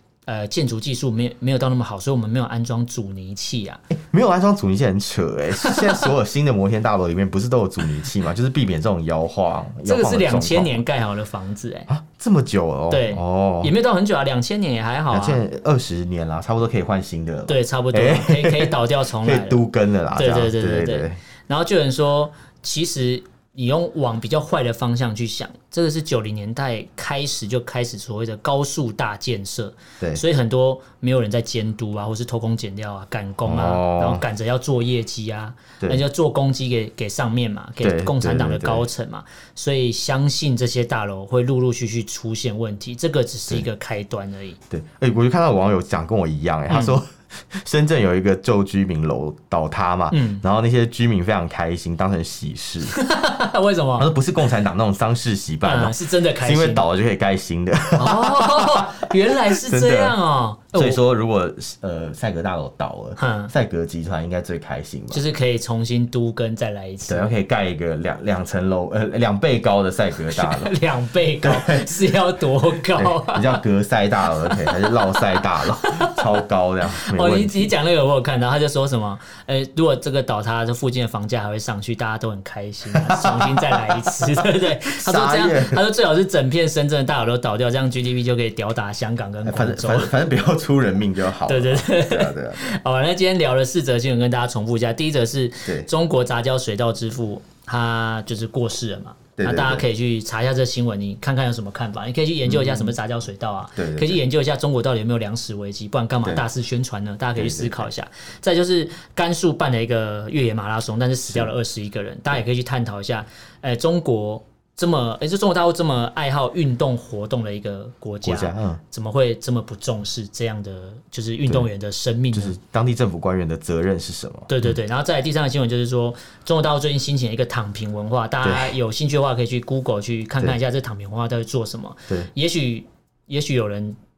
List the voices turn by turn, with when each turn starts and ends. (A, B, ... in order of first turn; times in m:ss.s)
0:00.2-0:03.8 A
0:03.9-0:10.8 B
0:05.6-0:06.1 A
0:09.8-0:11.9 A
0:11.9-0:13.7 B
0:12.9-0:15.4 A
0:15.1-0:21.2 B
0:17.5-0:19.6 A
0:20.1-0:44.6 A
0:33.4-0:34.2 B
0:37.8-0:38.9 B
0:44.7-0:53.0 B
0:46.7-0:47.0 A
0:50.1-0:50.4 A
0:52.9-0:54.1 A
0:54.0-1:00.2 B
0:55.6-0:56.8 A
0:58.0-1:01.0 A
1:00.7-1:05.2 B
1:03.2-1:03.5 A
1:05.1-1:07.3 A
1:07.1-1:10.7 B
1:10.3-1:13.6 A
1:11.4-1:11.9 B
1:12.9-1:17.7 B
1:14.4-1:16.2 A
1:16.9-1:30.1 A
1:22.9-1:25.8 B
1:29.4-1:32.8 B
1:31.4-2:02.5 A
1:39.4-1:39.8 B
1:42.4-1:42.9 B
1:43.8-1:44.2 B
1:47.4-1:47.9 B
1:58.2-1:58.8 B
2:02.3-2:04.8 B
2:04.5-2:14.0 A
2:08.4-2:08.7 B